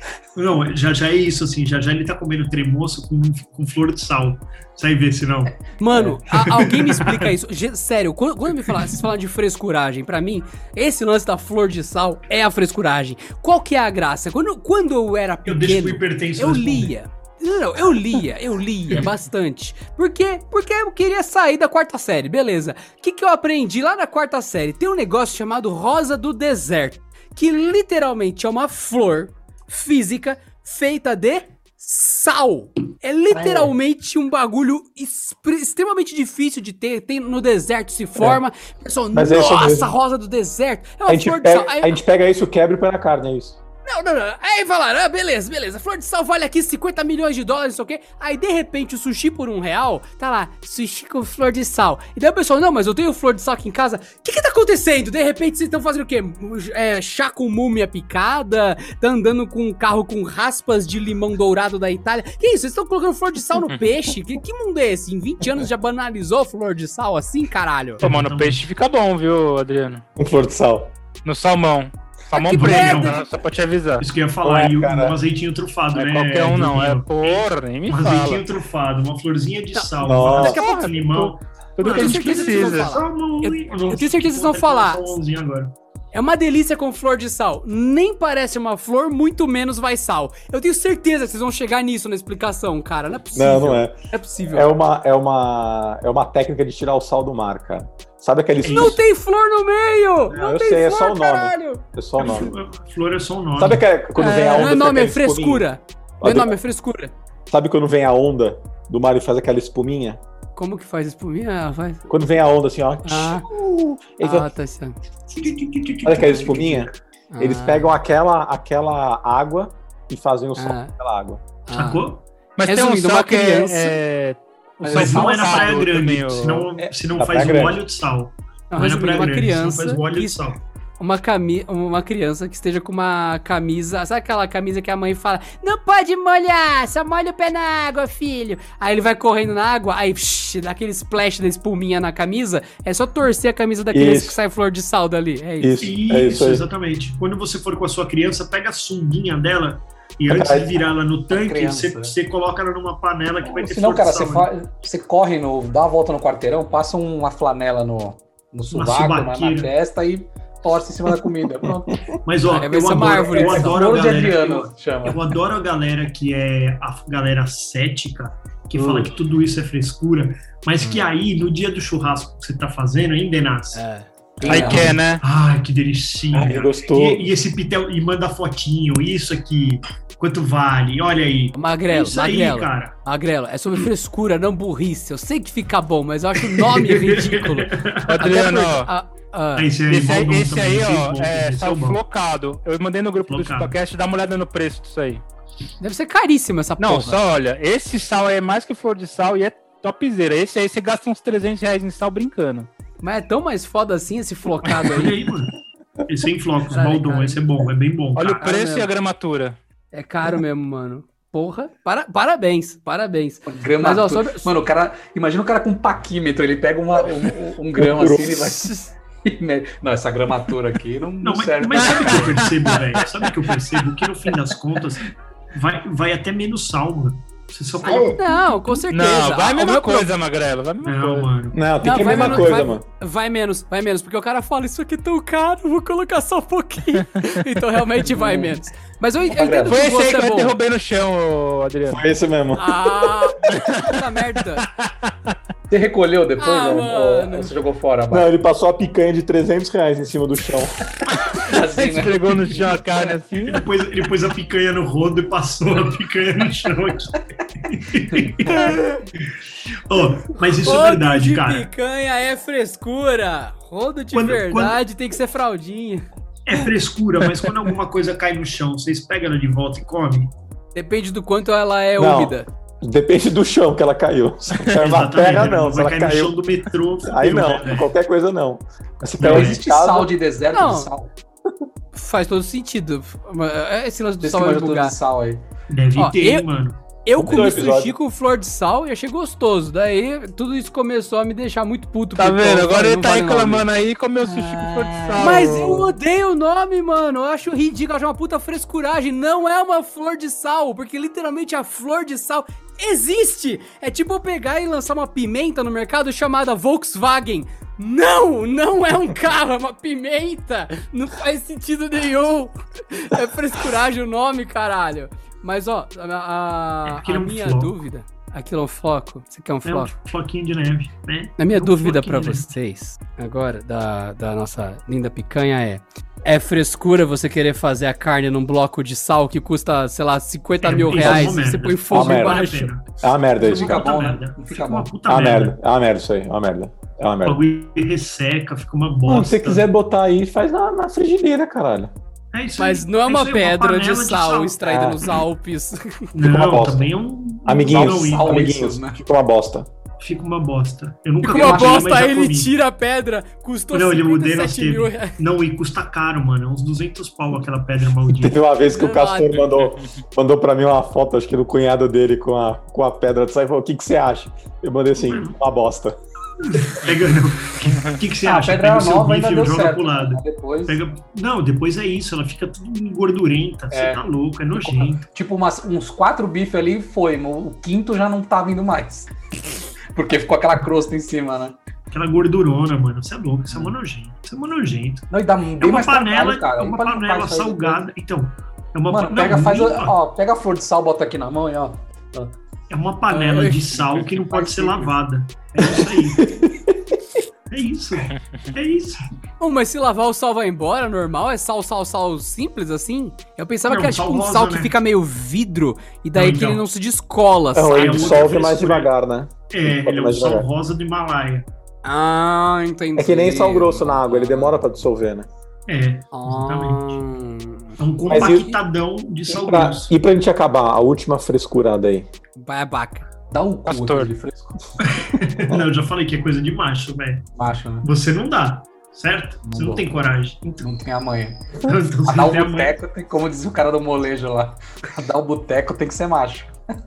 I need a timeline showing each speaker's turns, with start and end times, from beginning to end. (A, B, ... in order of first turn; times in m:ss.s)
0:00.4-0:05.6 A
0:05.8-0:42.0 B
0:06.4-0:07.3 A
0:15.4-0:16.9 A
0:39.1-0:39.9 C
0:41.1-0:43.6 C
0:43.8-1:08.0 B
1:08.0-1:08.6 A
1:08.0-1:10.0 D
1:10.2-1:10.9 C
1:11.2-1:14.0 D
1:12.4-1:13.2 A
1:12.4-1:13.2 B
1:14.0-1:25.7 A
1:14.4-1:15.2 C
1:15.9-1:18.4 D
1:19.8-1:20.9 B
1:20.0-1:20.6 C
1:20.3-1:23.0 D
1:21.8-1:25.2 B
1:26.1-1:34.7 B
1:33.3-1:34.0 C
1:34.5-1:39.0 C
1:38.6-1:39.0 A
1:38.6-1:41.8 B
1:40.3-1:42.5 C
1:42.2-1:43.8 A
1:43.6-1:45.6 C
1:44.2-1:47.1 B
1:46.2-1:46.5 C
1:47.5-1:50.2 C
1:50.6-1:52.1 B
1:52.1-1:54.5 C
1:53.0-1:53.5 B
1:54.2-1:55.0 B
1:55.3-1:56.9 A
1:56.0-2:01.4 C
1:57.3-1:57.9 B
2:00.6-2:00.9 B
2:01.6-2:02.1 B
2:01.7-2:02.2 A
2:02.6-2:06.7 D
2:02.6-2:03.9 B
2:04.8-2:05.9 E
2:04.9-2:10.6 A
2:06.8-2:07.8 C
2:08.7-2:10.4 B
2:11.0-2:25.8 B
2:23.9-2:24.4 C
2:25.6-2:26.6 C
2:25.8-2:34.5 A
2:30.3-2:30.8 C
2:31.3-2:32.1 E
2:33.4-2:42.0 E
2:38.7-2:39.7 A
2:41.6-2:42.0 C
2:42.2-2:53.8 A
2:42.4-2:43.9 B
2:42.8-2:45.2 E
2:48.7-2:49.1 E
2:53.7-2:54.1 B
2:54.4-2:55.0 E
2:54.4-2:55.2 D
2:54.4-3:02.9 A
2:56.3-2:57.3 C
3:01.5-3:09.7 B
3:06.5-3:08.2 A
3:08.1-3:08.9 D
3:09.6-3:12.0 A
3:09.9-3:15.2 D
3:13.3-3:13.7 A
3:15.8-3:17.2 B
3:16.8-3:22.7 D
3:23.0-3:25.1 B
3:24.8-3:25.5 A
3:26.1-3:28.4 A
3:26.7-3:27.4 B
3:28.1-3:29.6 D
3:28.4-3:28.9 B
3:29.9-3:34.5 B
3:33.4-3:43.3 E
3:37.7-3:38.5 C
3:38.6-3:38.9 B
3:41.2-3:48.2 A
3:41.9-3:42.4 D
3:47.8-3:50.1 B
3:48.9-3:51.3 D
3:50.8-3:51.6 A
3:51.5-3:52.8 C
3:51.8-4:00.5 B
3:52.1-3:52.4 A
3:58.1-3:58.6 E
3:59.3-3:59.8 E
3:59.7-4:02.1 D
4:01.9-4:03.1 C
4:02.6-4:04.7 B
4:05.7-4:08.3 E
4:06.4-4:07.5 B
4:08.1-4:10.7 C
4:11.4-4:13.2 E
4:11.4-4:13.6 D
4:13.5-4:18.8 A
4:18.2-4:18.5 E
4:18.5-4:19.0 B
4:19.8-4:21.7 A
4:20.5-4:26.0 B
4:24.1-4:24.8 A
4:26.4-4:30.3 A
4:30.7-4:32.5 B
4:32.0-4:36.3 C
4:34.8-4:37.9 A
4:37.0-4:40.1 C
4:39.2-4:39.6 A
4:39.2-4:41.1 E
4:40.5-4:40.9 B
4:41.9-4:45.0 B
4:44.2-4:45.4 E
4:45.7-4:46.8 A
4:46.0-4:46.5 B
4:47.0-4:53.6 B
4:47.2-4:47.9 C
4:52.2-4:55.9 D
4:54.2-4:55.8 E
4:55.2-5:19.9 B
5:16.8-5:17.7 A
5:19.6-5:22.5 A
5:21.4-5:32.7 B
5:30.6-5:35.5 A
5:31.0-5:31.3 C
5:31.9-5:32.5 C
5:33.0-5:33.9 C
5:33.4-5:34.9 E
5:35.1-5:37.4 C
5:37.2-5:39.6 A
5:39.0-5:41.9 C
5:42.3-5:44.6 A
5:42.6-5:46.1 B
5:44.6-5:45.1 C
5:46.1-5:48.7 A
5:46.2-5:46.9 C
5:47.4-5:49.7 C
5:47.6-5:49.0 E
5:50.0-5:52.5 A
5:51.2-5:55.2 B
5:51.2-5:51.9 E
5:53.7-5:58.4 A
5:58.1-6:06.0 C
5:58.6-5:59.6 B
6:05.0-6:05.4 A
6:06.4-6:15.1 A
6:08.2-6:10.8 E
6:13.7-6:19.1 E
6:19.9-6:21.5 E
6:21.9-6:25.1 A
6:25.1-6:27.8 E
6:25.6-6:29.9 A
6:28.9-6:32.3 E
6:32.7-6:36.3 A
6:33.1-6:33.5 E
6:34.3-6:34.9 E
6:35.6-6:37.0 C
6:37.5-6:39.1 A
6:39.4-6:48.4 B
6:43.6-6:44.7 A
6:46.1-6:46.6 A
6:47.5-6:50.5 C
6:47.7-6:48.9 A
6:49.5-6:51.5 A
6:51.8-6:54.8 B
6:53.0-6:55.3 C
6:55.7-6:57.0 A
6:56.1-6:57.8 B
6:57.8-6:59.9 A
6:58.1-6:58.6 C
6:59.2-7:02.1 C
7:02.4-7:03.1 B
7:03.3-7:04.6 E
7:03.6-7:04.1 D
7:04.8-7:07.3 A
7:07.3-7:07.9 E
7:07.8-7:10.7 A
7:09.4-7:10.0 E
7:10.6-7:16.5 E
7:11.6-7:12.7 A